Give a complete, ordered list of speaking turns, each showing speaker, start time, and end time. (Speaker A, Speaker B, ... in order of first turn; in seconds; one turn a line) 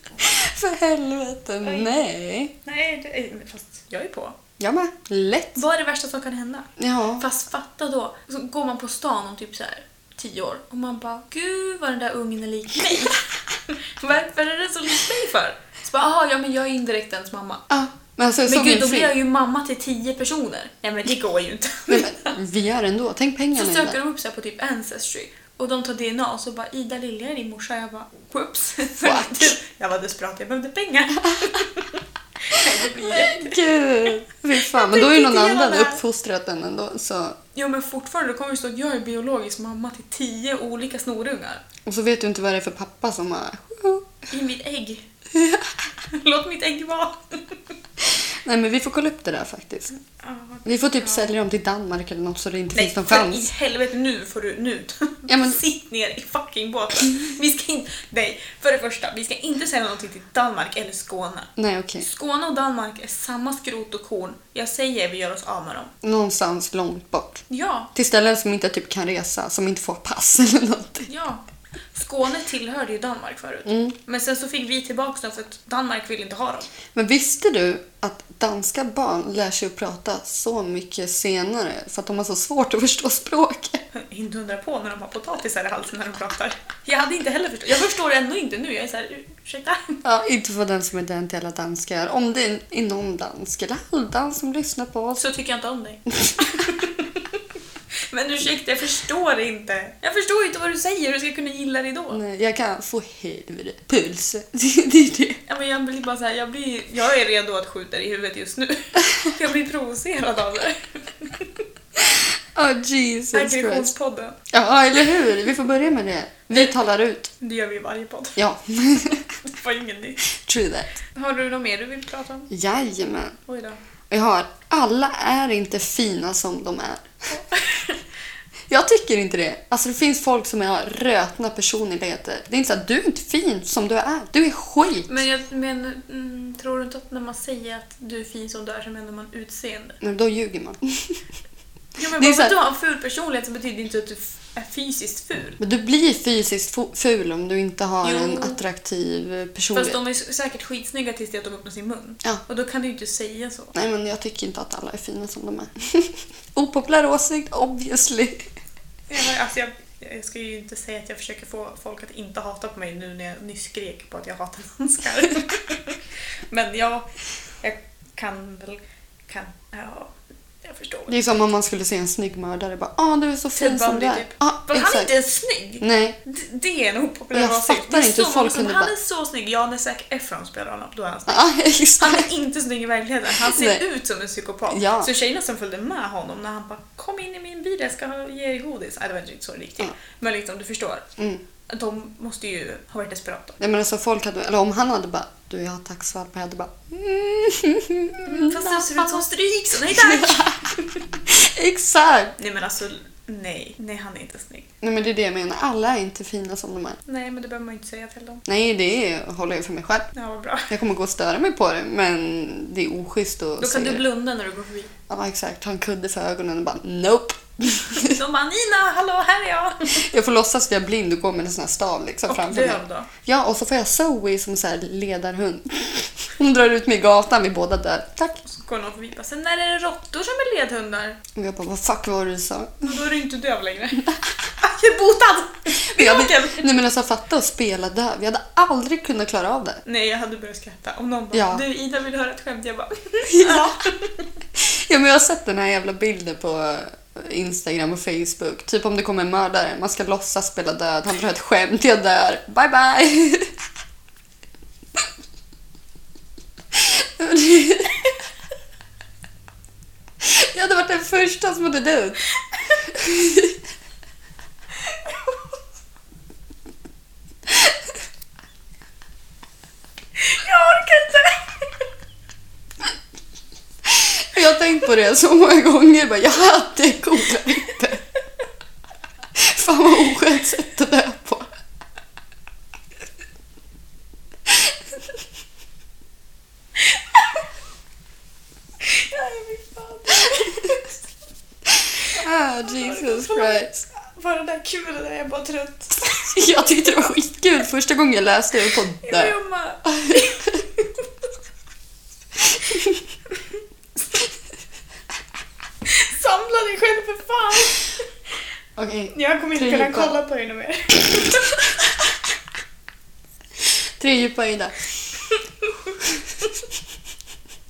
Speaker A: 0.2-2.5
Speaker B: 1.6-2.0
Speaker B: 2.6-4.4
Speaker A: 4.6-5.6
Speaker B: 5.6-17.6
Speaker A: 6.8-7.3
Speaker A: 17.7-19.1
Speaker B: 18.5-22.4
Speaker A: 21.9-24.0
Speaker B: 23.5-36.0
Speaker A: 29.0-29.6
Speaker A: 32.5-37.4
Speaker B: 37.5-41.6
Speaker A: 41.9-44.2
Speaker B: 44.3-45.1
Speaker A: 45.3-45.7
Speaker B: 46.1-47.6
Speaker A: 48.4-50.0
Speaker B: 50.1-51.4
Speaker A: 50.6-53.5
Speaker B: 52.7-65.9
Speaker A: 55.3-55.6
Speaker A: 61.6-62.1
Speaker A: 66.0-71.1
Speaker B: 67.5-67.9
Speaker B: 71.1-71.4
Speaker B: 71.9-76.7
Speaker A: 73.7-74.0
Speaker A: 76.9-83.8
Speaker B: 83.9-90.0
Speaker A: 90.0-95.2
Speaker B: 95.2-97.4
Speaker A: 96.2-96.5
Speaker B: 98.0-102.2
Speaker A: 102.1-105.4
Speaker B: 105.5-111.7
Speaker A: 112.1-113.9
Speaker B: 113.3-114.4
Speaker A: 114.5-117.3
Speaker B: 117.4-118.4
Speaker A: 118.4-119.3
Speaker B: 119.4-120.2
Speaker A: 120.3-121.0
Speaker B: 121.1-122.5
Speaker A: 122.5-123.4
Speaker B: 123.5-123.8
Speaker A: 124.1-127.1
Speaker B: 127.3-128.0
Speaker A: 128.7-135.2
Speaker B: 135.1-140.0
Speaker A: 140.0-141.2
Speaker B: 142.0-145.6
Speaker A: 142.2-142.6
Speaker A: 145.6-150.0
Speaker B: 148.0-148.6
Speaker B: 149.7-153.7
Speaker A: 153.7-158.5
Speaker B: 159.1-167.1
Speaker B: 167.6-171.2
Speaker A: 171.1-175.1
Speaker B: 173.6-181.5
Speaker A: 175.8-176.2
Speaker A: 177.3-178.9
Speaker A: 181.3-182.3
Speaker B: 182.0-191.1
Speaker A: 183.4-183.8
Speaker A: 184.7-185.1
Speaker A: 191.2-191.4
Speaker B: 191.7-193.6
Speaker A: 193.6-199.3
Speaker B: 198.2-201.0
Speaker A: 199.8-200.6
Speaker A: 201.3-202.3
Speaker B: 202.4-204.7
Speaker A: 204.8-207.0
Speaker B: 207.1-208.4
Speaker A: 208.4-210.1
Speaker B: 210.1-210.7
Speaker A: 210.7-214.0
Speaker B: 213.6-214.9
Speaker A: 215.1-218.2
Speaker B: 217.9-220.0
Speaker A: 219.9-228.4
Speaker B: 222.3-223.1
Speaker B: 228.4-231.2
Speaker A: 231.3-232.9
Speaker B: 232.8-234.1
Speaker B: 234.6-236.7
Speaker A: 235.8-239.8
Speaker B: 239.8-244.3
Speaker A: 241.3-241.6
Speaker A: 243.3-243.7
Speaker A: 244.6-253.5
Speaker A: 256.8-258.1
Speaker A: 260.2-262.2
Speaker A: 262.9-263.6
Speaker B: 264.8-265.6
Speaker B: 270.2-271.9
Speaker A: 273.9-278.1
Speaker A: 279.4-281.5
Speaker B: 286.8-287.5
Speaker B: 288.8-291.0
Speaker B: 292.0-297.0
Speaker A: 292.1-293.9
Speaker A: 296.1-299.4
Speaker B: 299.0-301.1
Speaker A: 300.0-300.6
Speaker A: 302.7-303.0
Speaker B: 305.9-308.1
Speaker A: 308.8-310.2
Speaker B: 309.1-312.1
Speaker A: 313.7-314.9
Speaker B: 315.3-316.5